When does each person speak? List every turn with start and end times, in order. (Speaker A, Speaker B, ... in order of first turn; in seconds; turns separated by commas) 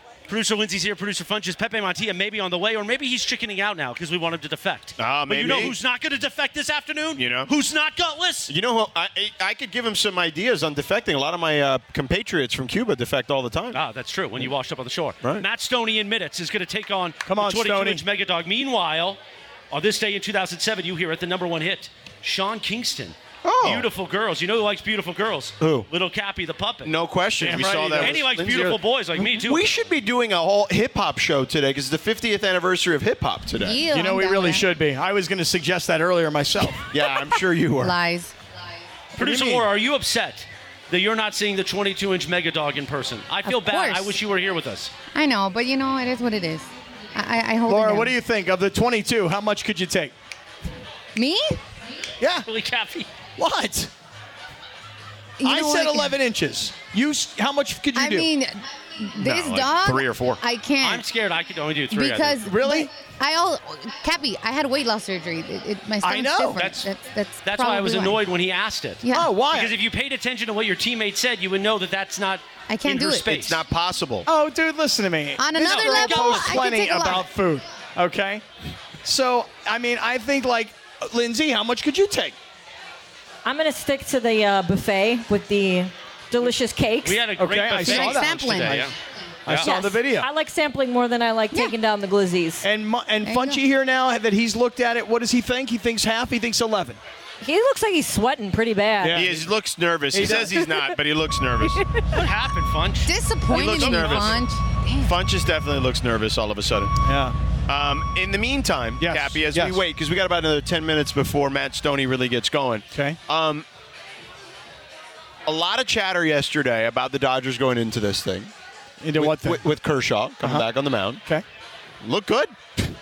Speaker A: 0.3-8.5, Speaker B: 5.0-5.8, Speaker B: 7.2-7.5, Speaker B: 8.5-13.8, Speaker A: 13.7-19.2, Speaker C: 17.2-18.0, Speaker A: 19.7-27.0, Speaker B: 23.4-23.9, Speaker B: 25.6-25.9, Speaker B: 26.8-33.8, Speaker C: 27.4-28.3, Speaker A: 27.8-29.7, Speaker D: 33.5-34.6, Speaker C: 33.9-36.8, Speaker B: 36.9-38.0, Speaker D: 37.7-38.3, Speaker A: 39.2-44.9, Speaker C: 39.2-39.7, Speaker D: 43.4-44.2, Speaker D: 45.1-48.1, Speaker C: 47.6-50.1, Speaker D: 51.1-51.6, Speaker C: 52.2-52.5, Speaker A: 52.4-53.1, Speaker C: 53.4-53.9, Speaker D: 55.4-56.2, Speaker C: 55.4-58.3, Speaker D: 57.9-61.0, Speaker B: 59.2-60.4, Speaker A: 60.8-62.4, Speaker D: 61.9-68.2, Speaker C: 62.4-62.9, Speaker C: 66.0-66.7, Speaker A: 66.6-66.9, Speaker A: 67.4-73.6, Speaker D: 69.0-69.4, Speaker C: 69.1-69.8, Speaker D: 72.7-73.4, Speaker B: 73.3-74.3, Speaker C: 74.2-78.4, Speaker D: 75.4-77.3, Speaker A: 75.6-76.6, Speaker C: 79.0-82.4, Speaker E: 83.4-87.3, Speaker A: 87.0-88.9, Speaker C: 87.4-88.8, Speaker D: 87.8-88.9, Speaker C: 89.5-90.3, Speaker E: 89.6-92.7, Speaker C: 92.6-97.0, Speaker D: 93.2-93.6, Speaker E: 97.4-99.2, Speaker C: 99.0-99.4, Speaker B: 99.1-101.8, Speaker C: 100.1-100.6, Speaker A: 102.1-103.1, Speaker D: 103.0-105.2, Speaker B: 103.5-104.5, Speaker A: 103.6-104.4, Speaker B: 105.0-106.9, Speaker C: 107.0-107.3, Speaker B: 107.7-113.7, Speaker C: 109.0-109.8, Speaker C: 112.9-113.2, Speaker B: 115.5-118.5, Speaker C: 119.0-119.7, Speaker B: 119.2-121.2, Speaker C: 120.4-120.7, Speaker B: 122.0-122.5